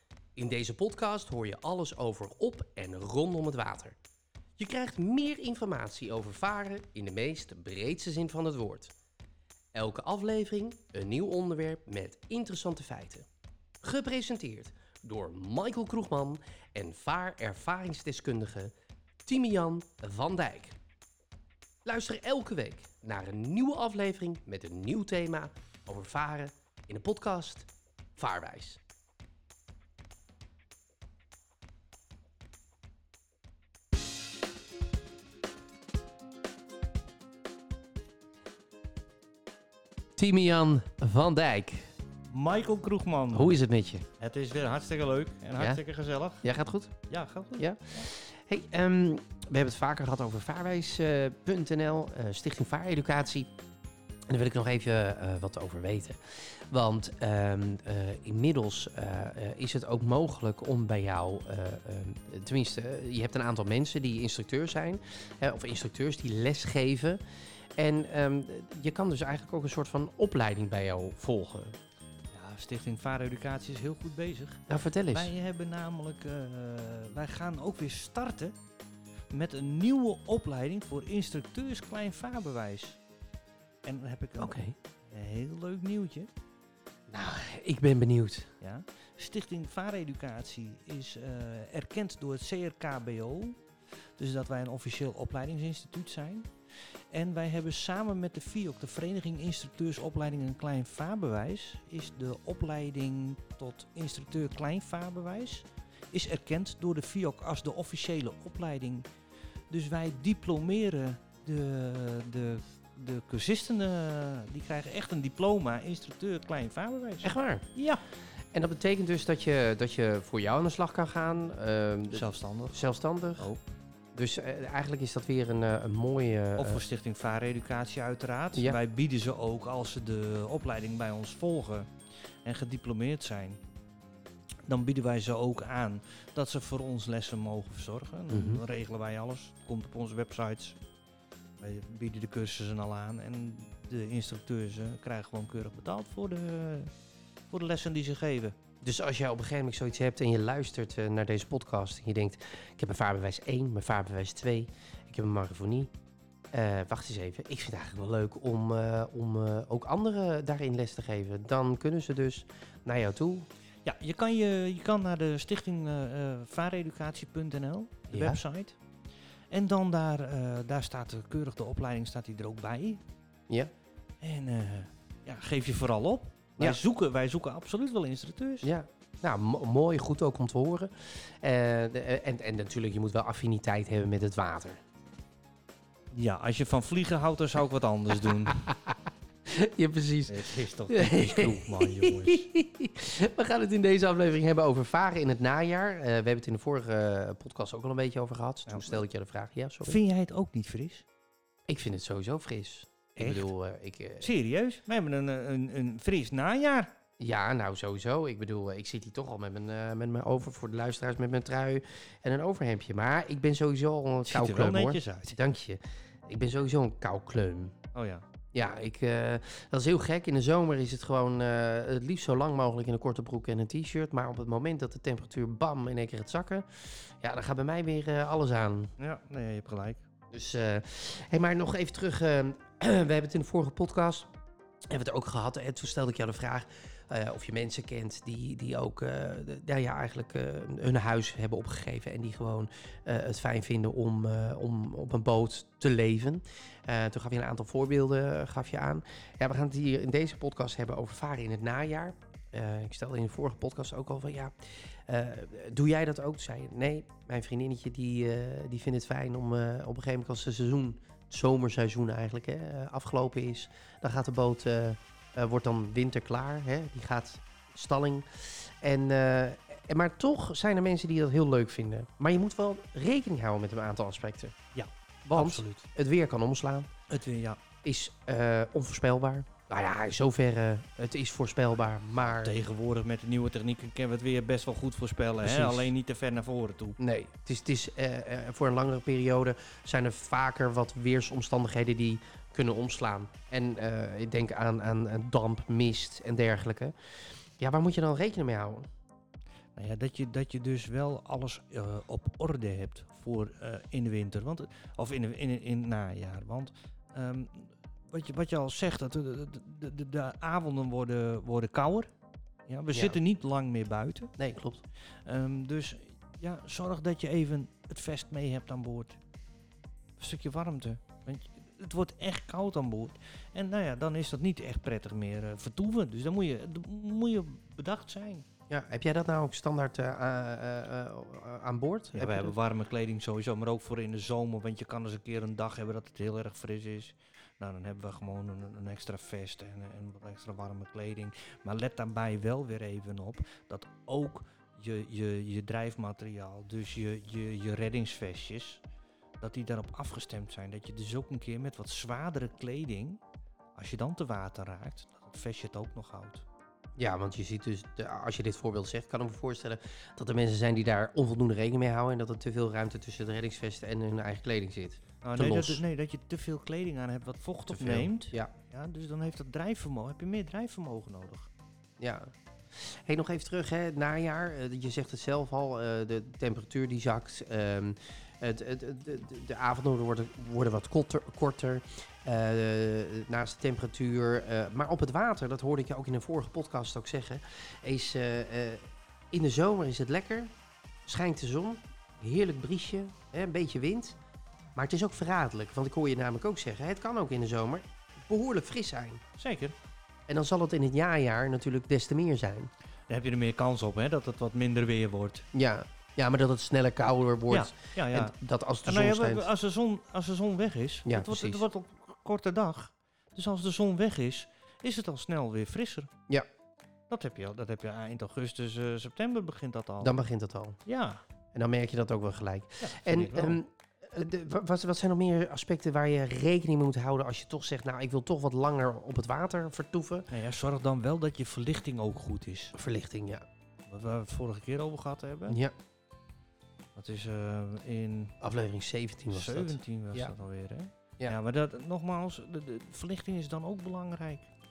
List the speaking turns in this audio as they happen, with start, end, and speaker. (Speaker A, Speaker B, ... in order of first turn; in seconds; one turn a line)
Speaker A: 0.4-4.0
Speaker A: 4.6-8.9
Speaker A: 9.7-13.3
Speaker A: 13.8-18.7
Speaker A: 19.3-20.8
Speaker A: 21.9-28.8
Speaker A: 40.2-41.9
Speaker B: 42.3-43.6
Speaker A: 43.3-44.1
Speaker B: 44.2-46.5
Speaker A: 46.4-47.0
Speaker B: 47.1-48.1
Speaker A: 47.6-53.5
Speaker A: 54.3-67.2
Speaker A: 67.8-71.8
Speaker B: 72.3-78.6
Speaker A: 74.7-75.3
Speaker B: 79.3-83.0
Speaker B: 83.8-84.6
Speaker A: 84.4-84.8
Speaker B: 85.1-86.3
Speaker A: 87.1-88.5
Speaker B: 88.6-93.6
Speaker B: 94.2-96.5
Speaker B: 97.1-109.1
Speaker B: 109.7-118.0
Speaker A: 117.2-117.7
Speaker A: 118.5-123.5
Speaker B: 122.1-123.6
Speaker A: 124.2-126.8
Speaker B: 126.6-131.9
Speaker B: 132.4-133.6
Speaker B: 134.7-140.8
Speaker A: 138.3-138.6
Speaker B: 141.6-146.9
Speaker B: 147.5-148.6
Speaker A: 148.8-155.9
Speaker A: 156.5-163.5
Speaker B: 163.8-168.8
Speaker A: 168.1-168.4
Speaker B: 169.5-173.0
Speaker B: 174.2-178.7
Speaker A: 178.6-184.8
Speaker B: 186.1-188.7
Speaker A: 188.6-188.9
Speaker A: 189.5-200.0
Speaker B: 190.3-192.5
Speaker B: 198.7-199.0
Speaker B: 199.8-201.1
Speaker A: 201.7-204.3
Speaker B: 203.2-203.5
Speaker B: 204.2-206.9
Speaker A: 207.2-217.8
Speaker B: 214.3-215.4
Speaker B: 217.9-218.2
Speaker A: 218.5-228.9
Speaker B: 229.0-230.1
Speaker A: 230.3-234.3
Speaker A: 234.9-254.5
Speaker A: 255.1-274.6
Speaker B: 274.7-275.8
Speaker A: 275.2-276.9
Speaker B: 277.1-277.6
Speaker A: 277.8-282.6
Speaker B: 282.3-287.0
Speaker A: 285.4-285.9
Speaker A: 287.0-296.9
Speaker A: 297.6-298.9
Speaker B: 299.8-312.1
Speaker B: 312.7-314.3
Speaker A: 314.4-314.8
Speaker B: 315.3-319.2
Speaker B: 320.2-328.4
Speaker A: 328.7-332.6
Speaker B: 332.1-348.8
Speaker B: 349.4-353.2
Speaker B: 353.8-356.4
Speaker A: 357.0-365.8
Speaker B: 365.2-371.5
Speaker A: 367.7-368.5
Speaker A: 372.0-390.5
Speaker A: 391.1-394.2
Speaker A: 394.8-399.2
Speaker B: 399.4-399.8
Speaker A: 400.3-402.7
Speaker B: 403.1-405.4
Speaker A: 405.5-409.5
Speaker B: 407.5-416.1
Speaker A: 411.1-411.6
Speaker B: 417.1-420.1
Speaker A: 420.0-420.8
Speaker B: 420.9-421.2
Speaker A: 421.5-430.3
Speaker B: 422.8-423.6
Speaker B: 430.3-432.7
Speaker A: 432.7-433.4
Speaker B: 433.9-435.6
Speaker A: 435.5-435.7
Speaker B: 436.9-438.3
Speaker A: 438.4-440.4
Speaker B: 439.3-444.5